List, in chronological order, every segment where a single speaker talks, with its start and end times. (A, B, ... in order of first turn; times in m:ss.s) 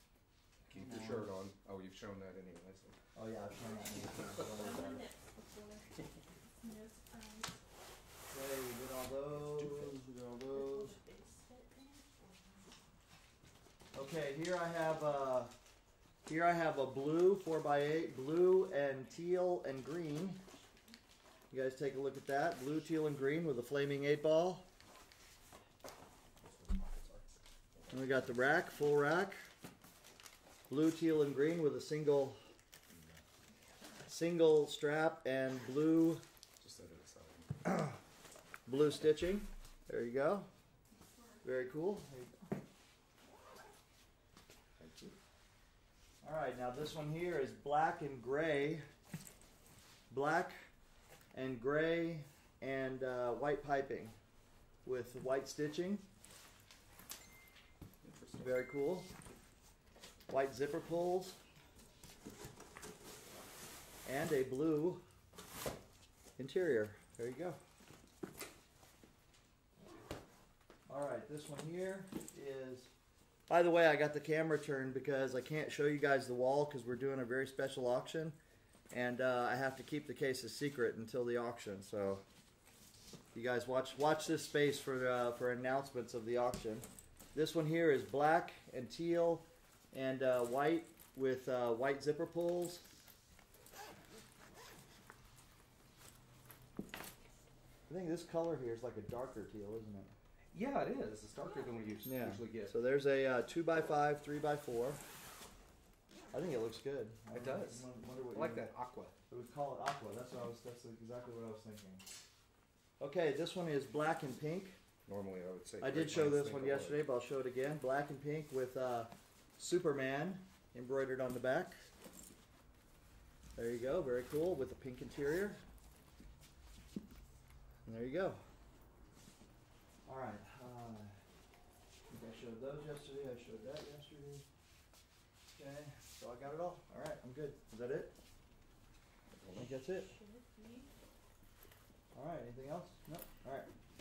0:00.7-0:03.0 A
0:00.7-0:01.3 B
0:03.1-0:05.1 B
0:04.5-0:06.0 C
0:06.6-0:07.6 C
0:08.3-0:10.9 B
0:09.6-0:10.4 A
0:10.5-0:12.7 C
0:13.9-0:15.5 B
0:16.2-0:20.4 B
0:21.5-0:24.6 B
0:26.4-0:28.3 A
0:27.9-0:29.4 B
0:30.7-0:32.4 B
0:32.9-0:33.2 A
0:34.1-0:36.2 B
0:36.6-0:37.6 A
0:38.6-0:40.5 B
0:41.1-0:41.4 C
0:41.4-0:42.4 B
0:44.8-0:45.2 A
0:46.2-0:48.8 B
0:50.1-0:50.5 B
0:51.3-0:54.1 B
0:54.8-0:56.0 B
0:58.0-0:58.6 A
0:58.4-0:59.1 B
1:00.3-1:01.4 B
1:04.0-1:05.0 B
1:06.4-1:07.6 B
1:10.9-1:12.9 B
1:13.5-1:18.4 B
1:18.9-1:22.2 B
1:23.3-1:32.8 B
1:37.9-1:40.1 B
1:40.5-1:42.7 A
1:42.0-1:45.0 B
1:46.3-1:48.7 B
1:47.3-1:49.1 A
1:49.3-1:52.0 B
1:53.0-1:54.8 B
1:55.1-1:57.0 A
1:55.8-2:01.7 B
2:03.6-2:05.6 B
2:07.8-2:08.4 B
2:10.0-2:11.1 B
2:12.1-2:14.4 B
2:15.5-2:18.1 B
2:19.4-2:19.7 A
2:19.6-2:20.1 B
2:20.0-2:20.9 C
2:22.1-2:23.7 B